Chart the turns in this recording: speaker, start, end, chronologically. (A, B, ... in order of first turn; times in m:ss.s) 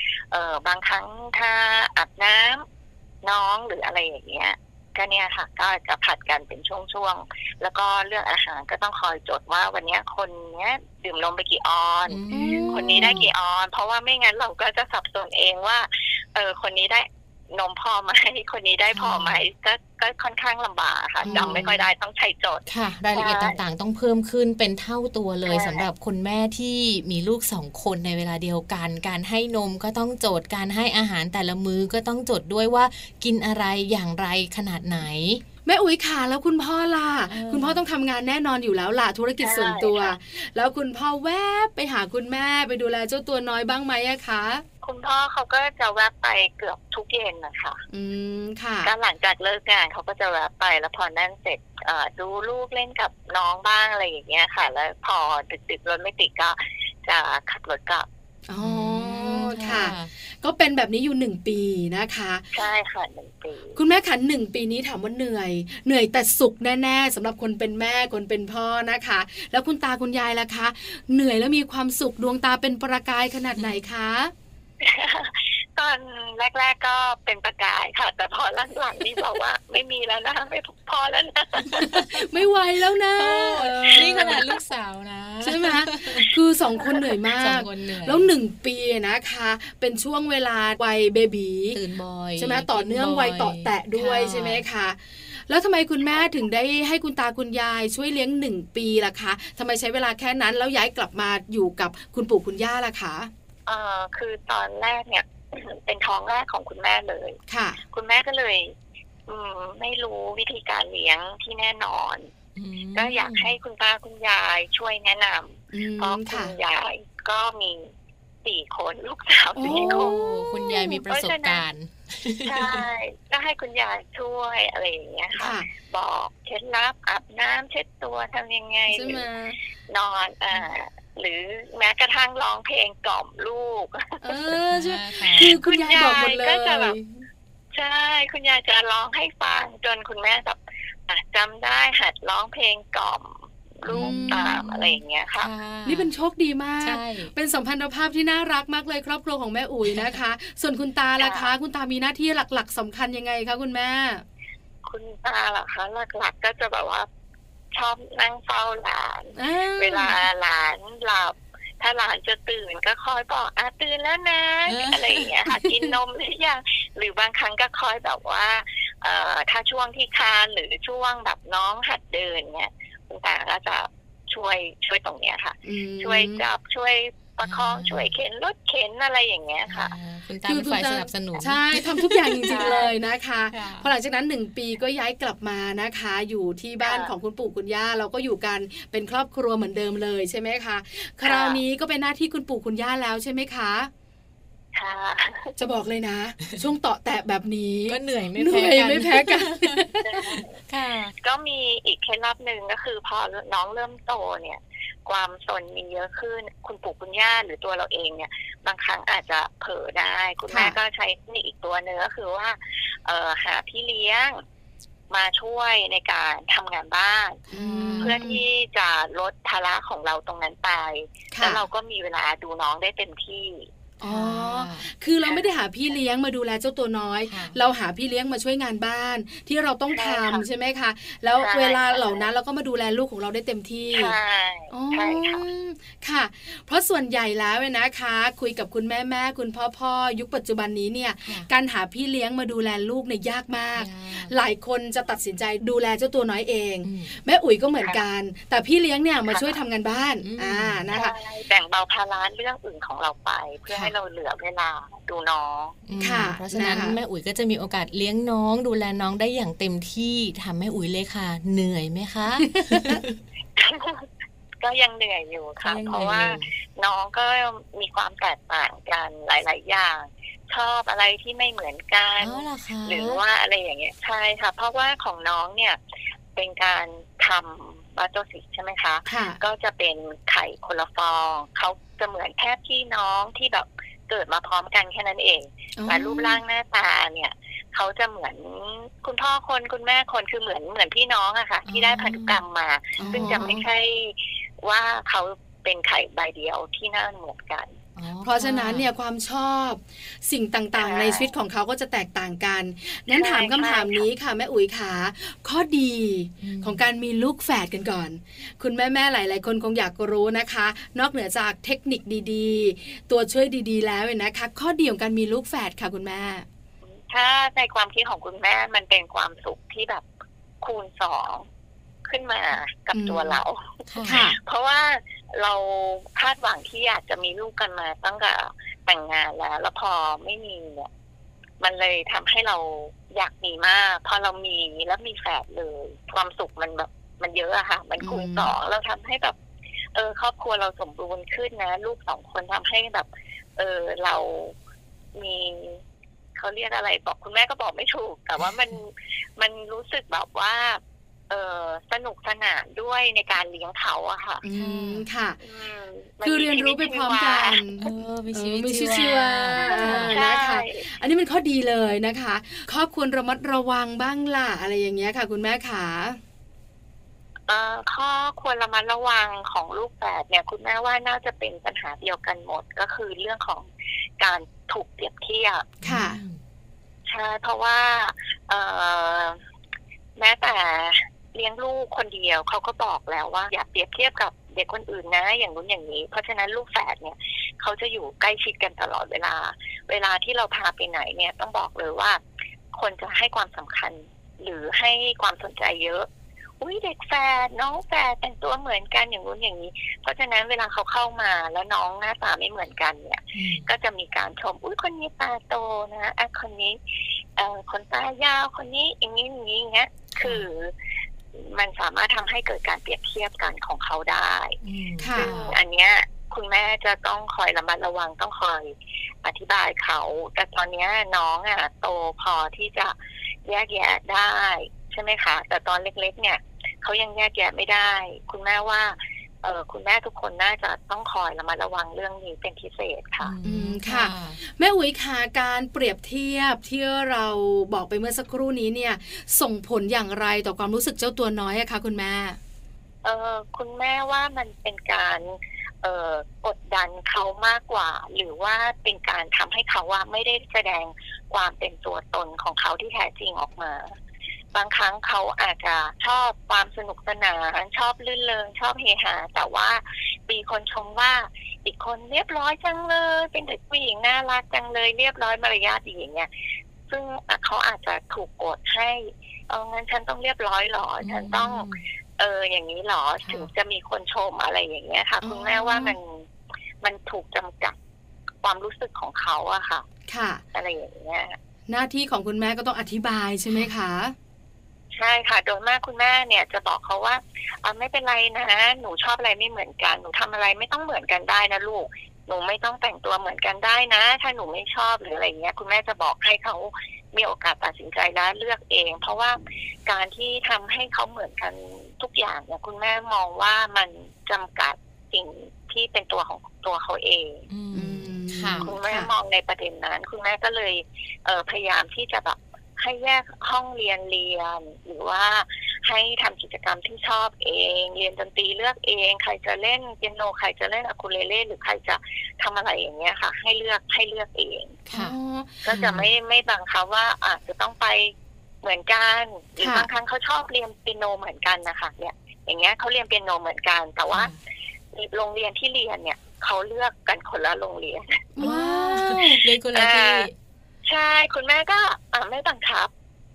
0:00.3-0:02.6 A
0:03.2-0:23.6 A
0:12.1-0:13.3 B
0:12.3-0:13.2 C
0:18.9-0:19.4 B
0:21.2-0:21.7 B
0:21.2-0:21.8 C
0:22.7-0:35.4 B
0:25.4-0:25.9 A
0:35.6-0:44.6 C
0:37.3-0:37.8 B
0:39.4-0:40.1 A
0:44.8-0:47.8 A
0:47.9-0:48.9 C
0:48.8-0:58.1 A
0:58.5-1:02.5 C
0:58.6-1:00.1 B
1:02.5-1:03.8 A
1:03.8-1:14.3 C
1:13.5-1:13.8 B
1:14.8-1:21.9 A
1:21.7-1:22.4 B
1:21.8-1:24.4 C
1:23.1-1:26.3 B
1:24.0-1:24.5 A
1:25.4-1:31.8 C
1:26.8-1:28.3 B
1:31.7-1:34.6 B
1:32.4-1:43.3 C
1:43.7-1:47.4 A
1:47.5-1:47.8 C
1:47.9-1:48.7 A
1:49.3-1:52.3 A
1:52.6-1:53.5 B
1:52.9-1:57.9 A
1:55.7-1:56.5 C
1:58.4-2:00.2 A
1:59.6-2:00.9 C
1:59.6-2:02.9 B
2:00.8-2:01.6 A
2:02.4-2:09.2 A
2:05.3-2:05.7 C
2:08.9-2:09.6 C
2:09.9-2:14.4 A
2:14.2-2:17.2 C
2:14.7-2:15.6 B
2:15.6-2:17.0 A
2:17.7-2:25.5 A
2:23.9-2:26.1 B
2:23.9-2:24.6 C
2:25.8-2:34.2 C
2:26.8-2:27.3 B
2:29.8-2:30.2 B
2:31.2-2:31.5 A
2:34.8-2:37.1 A
2:37.7-2:59.9 A
2:39.4-2:40.2 C
2:44.6-2:45.4 B
2:55.6-2:56.4 C
2:57.4-2:58.2 B
2:59.7-3:02.9 B
3:00.4-3:13.9 C
3:02.5-3:02.9 A
3:03.5-3:03.9 B
3:06.8-3:07.1 A
3:11.2-3:11.6 A
3:14.7-3:15.6 A
3:15.6-3:20.4 C
3:17.9-3:19.9 B
3:20.0-3:20.6 A
3:20.7-3:21.2 B
3:21.2-3:34.4 A
3:30.5-3:30.8 C
3:35.1-3:37.4 A
3:37.5-3:38.2 B
3:37.5-3:38.4 C
3:38.0-3:43.7 A
3:41.3-3:41.6 C
3:44.0-3:54.1 C
3:44.0-3:44.8 B
3:47.3-3:47.6 B
3:49.9-3:50.4 A
3:51.4-3:52.2 A
3:53.9-3:55.4 A
3:54.7-4:11.1 C
4:01.2-4:01.5 B
4:03.8-4:04.3 B
4:06.8-4:07.2 B
4:09.3-4:09.6 A
4:10.2-4:10.9 B
4:10.9-4:15.8 A
4:15.9-4:23.2 B
4:16.0-4:17.0 C
4:22.5-4:23.0 C
4:23.6-4:24.1 A
4:24.6-4:35.8 A
4:25.6-4:26.5 B
4:32.2-4:33.2 B
4:36.4-4:57.8 A
4:39.0-4:39.4 C
4:45.8-4:46.4 C
4:51.7-4:52.4 B
4:53.0-4:53.6 C
4:53.1-4:53.6 B
4:58.0-4:58.9 B
4:58.2-5:16.4 C
5:00.8-5:01.3 A
5:03.1-5:04.0 A
5:06.4-5:06.8 B
5:16.9-5:20.0 A
5:20.6-5:21.5 A
5:22.1-5:30.9 A
5:22.9-5:23.4 C
5:23.9-5:24.2 B
5:24.1-5:24.4 C
5:31.6-5:39.4 A
5:38.0-5:38.5 C
5:39.9-5:44.5 A
5:45.2-5:45.8 A
5:46.4-5:54.4 A
5:54.4-5:55.4 C
5:54.5-5:55.0 B
5:55.4-5:57.6 A
5:56.2-6:06.2 C
5:57.8-6:00.2 B
5:59.7-6:00.9 A
6:07.5-6:13.7 A
6:14.2-6:15.8 A
6:15.8-6:16.4 B
6:15.8-6:16.2 C
6:17.0-6:19.4 A
6:20.2-6:32.2 A
6:32.7-6:36.1 A
6:36.6-6:46.8 A
6:43.3-6:43.7 B
6:47.4-6:50.7 A
6:50.2-6:50.5 B
6:51.3-6:54.6 A
6:54.6-6:55.6 B
6:55.0-6:55.3 C
6:55.1-7:02.9 A
7:03.4-7:13.3 A
7:13.2-7:14.4 B
7:13.4-7:22.4 C
7:23.0-7:34.0 A
7:34.5-7:46.3 A
7:46.9-7:56.3 A
7:51.0-7:51.8 B
7:53.2-7:53.5 B
7:55.2-7:56.0 C
7:56.8-7:57.8 A
7:58.4-7:59.8 A
8:00.1-8:00.4 C
8:00.5-8:01.4 A
8:01.7-8:04.1 C
8:04.9-8:27.5 A
8:27.5-8:28.7 B
8:27.7-8:29.1 C
8:28.6-8:44.8 A
8:44.9-8:45.1 B
8:44.9-8:45.6 C
8:45.6-8:54.3 A
8:45.7-8:46.1 B
8:49.6-8:49.9 C
8:54.1-8:54.4 B
8:54.9-8:58.3 A
8:58.4-8:59.4 C
8:58.4-9:00.3 B
8:59.7-9:00.3 A
9:00.8-9:02.9 A